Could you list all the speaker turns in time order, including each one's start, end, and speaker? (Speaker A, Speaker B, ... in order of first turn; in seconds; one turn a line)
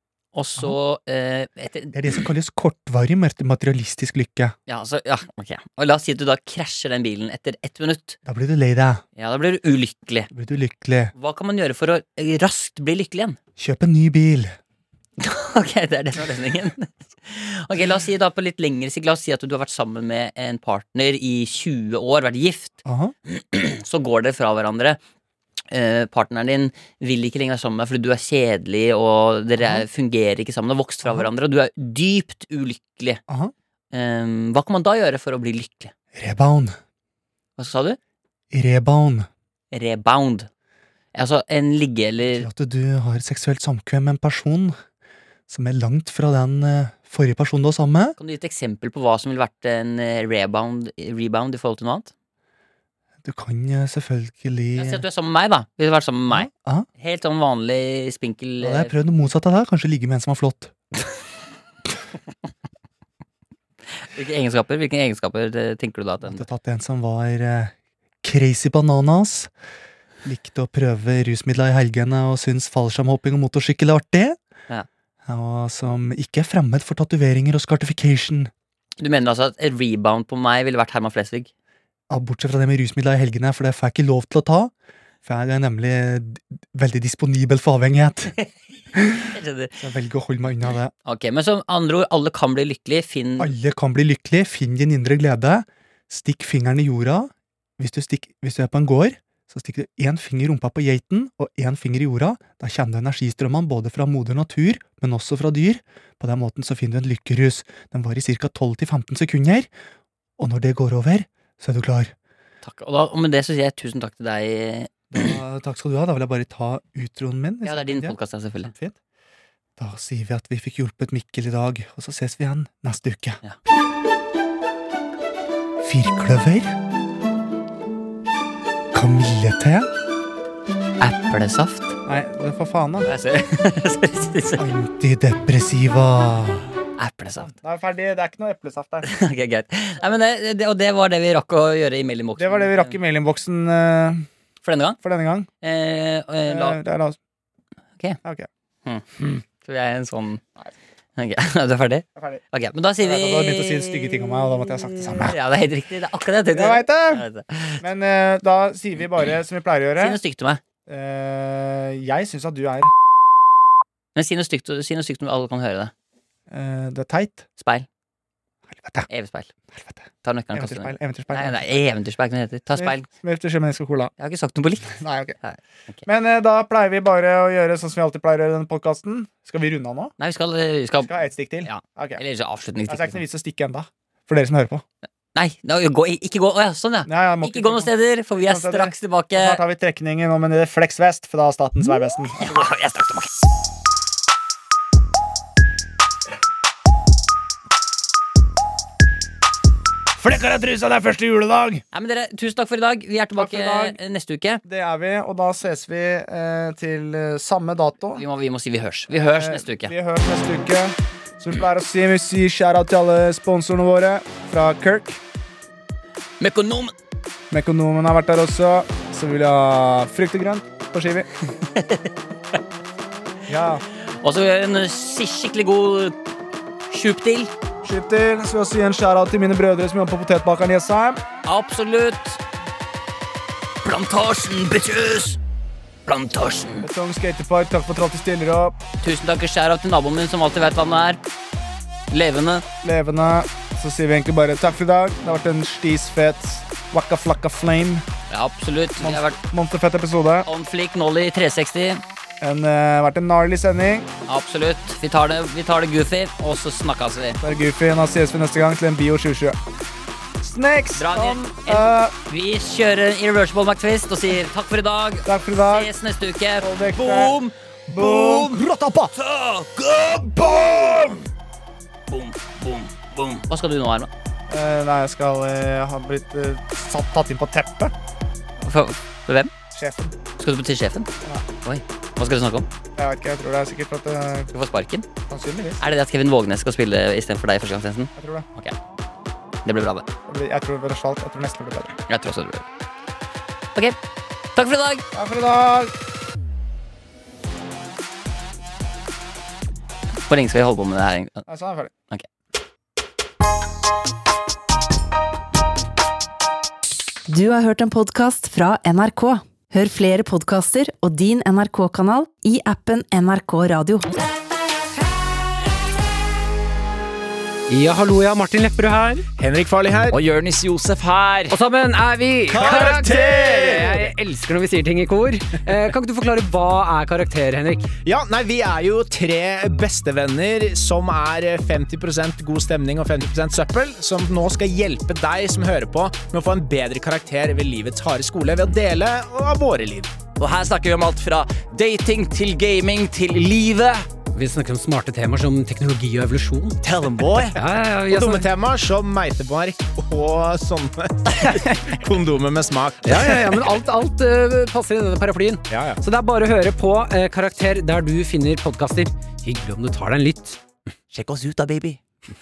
Speaker A: 0.3-2.2
Speaker B: 1.9-4.5
Speaker A: 4.7-8.2
Speaker B: 8.2-9.0
Speaker A: 9.2-10.3
Speaker B: 10.3-11.1
Speaker A: 11.1-13.4
Speaker B: 13.6-14.5
Speaker A: 15.2-25.0
Speaker B: 22.8-23.1
Speaker A: 25.7-33.2
Speaker B: 29.6-29.8
Speaker B: 33.3-33.5
Speaker A: 33.9-35.9
Speaker B: 36.1-36.8
Speaker A: 37.6-38.0
Speaker B: 38.5-39.3
Speaker A: 39.7-40.5
Speaker A: 41.1-42.5
Speaker B: 42.3-44.7
Speaker B: 45.5-48.1
Speaker A: 48.2-52.1
Speaker B: 53.2-55.0
Speaker A: 54.8-58.9
Speaker B: 56.3-56.9
Speaker B: 58.6-60.7
Speaker A: 64.0-66.5
Speaker B: 66.2-69.5
Speaker B: 70.2-74.4
Speaker B: 75.2-78.5
Speaker A: 79.0-81.5
Speaker B: 82.1-84.7
Speaker B: 85.2-88.3
Speaker B: 88.9-89.3
Speaker A: 89.2-89.8
Speaker B: 89.8-90.9
Speaker A: 91.0-93.5
Speaker B: 93.4-109.7
Speaker B: 110.4-112.1
Speaker A: 112.6-115.2
Speaker B: 115.1-119.0
Speaker A: 117.6-118.7
Speaker B: 119.8-123.4
Speaker B: 125.8-126.8
Speaker B: 128.9-129.9
Speaker A: 131.0-131.9
Speaker B: 132.1-133.1
Speaker A: 133.1-134.7
Speaker B: 134.6-136.7
Speaker A: 137.0-137.5
Speaker B: 137.4-139.1
Speaker A: 139.0-143.0
Speaker B: 142.4-144.3
Speaker A: 144.6-145.0
Speaker B: 145.0-145.5
Speaker A: 145.6-146.8
Speaker B: 146.5-147.2
Speaker A: 148.8-150.4
Speaker A: 151.2-154.3
Speaker B: 152.2-152.4
Speaker B: 153.0-155.3
Speaker A: 155.1-157.8
Speaker B: 156.5-157.2
Speaker B: 157.8-160.2
Speaker A: 160.0-160.6
Speaker B: 160.9-162.9
Speaker A: 164.1-165.9
Speaker B: 166.5-167.4
Speaker A: 167.6-167.9
Speaker B: 168.7-169.1
Speaker A: 169.1-169.5
Speaker B: 169.7-171.6
Speaker A: 170.2-173.1
Speaker B: 172.7-174.1
Speaker A: 174.2-176.0
Speaker B: 174.9-175.3
Speaker B: 176.1-180.1
Speaker A: 180.2-181.1
Speaker B: 181.0-182.2
Speaker A: 181.6-183.2
Speaker B: 182.9-184.8
Speaker A: 185.3-189.6
Speaker B: 187.1-192.7
Speaker A: 192.4-193.3
Speaker B: 200.2-201.8
Speaker A: 201.9-204.6
Speaker B: 203.3-204.0
Speaker B: 204.6-208.2
Speaker A: 208.2-209.9
Speaker B: 209.3-215.2
Speaker A: 216.4-216.9
Speaker B: 217.5-221.3
Speaker A: 221.7-222.1
Speaker B: 223.5-223.8
Speaker A: 224.2-226.2
Speaker A: 226.9-227.5
Speaker B: 227.8-231.2
Speaker A: 231.4-232.4
Speaker A: 233.8-235.4
Speaker A: 236.1-236.9
Speaker B: 236.8-238.8
Speaker A: 239.0-241.2
Speaker A: 242.1-242.6
Speaker B: 242.8-248.0
Speaker A: 248.3-249.4
Speaker B: 249.0-250.5
Speaker A: 250.4-252.0
Speaker B: 252.4-254.1
Speaker A: 254.3-257.4
Speaker B: 257.4-259.6
Speaker B: 260.4-262.1
Speaker A: 260.9-271.1
Speaker B: 265.2-265.9
Speaker B: 266.6-267.3
Speaker B: 267.9-269.1
Speaker B: 270.4-271.1
Speaker A: 272.1-274.1
Speaker B: 274.5-277.9
Speaker A: 278.6-279.5
Speaker B: 279.7-280.1
Speaker A: 280.4-281.1
Speaker A: 281.6-282.6
Speaker B: 282.9-284.5
Speaker A: 284.5-285.1
Speaker B: 285.3-285.8
Speaker A: 285.8-288.7
Speaker B: 288.2-288.4
Speaker A: 289.6-290.1
Speaker B: 290.3-291.9
Speaker A: 292.1-292.6
Speaker A: 294.5-295.0
Speaker B: 295.1-295.9
Speaker A: 300.3-301.4
Speaker B: 301.5-301.9
Speaker C: 307.3-314.1
Speaker D: 317.7-319.2
Speaker E: 319.4-320.2
Speaker F: 320.1-321.4
Speaker D: 321.5-327.9
Speaker E: 322.5-324.1
Speaker B: 322.5-323.9
Speaker E: 328.1-340.1
Speaker F: 340.6-344.0
Speaker D: 344.3-346.9
Speaker F: 346.9-347.4
Speaker D: 347.5-348.5
Speaker E: 348.1-353.6
Speaker D: 353.0-360.6
Speaker E: 355.7-356.0
Speaker F: 361.1-362.0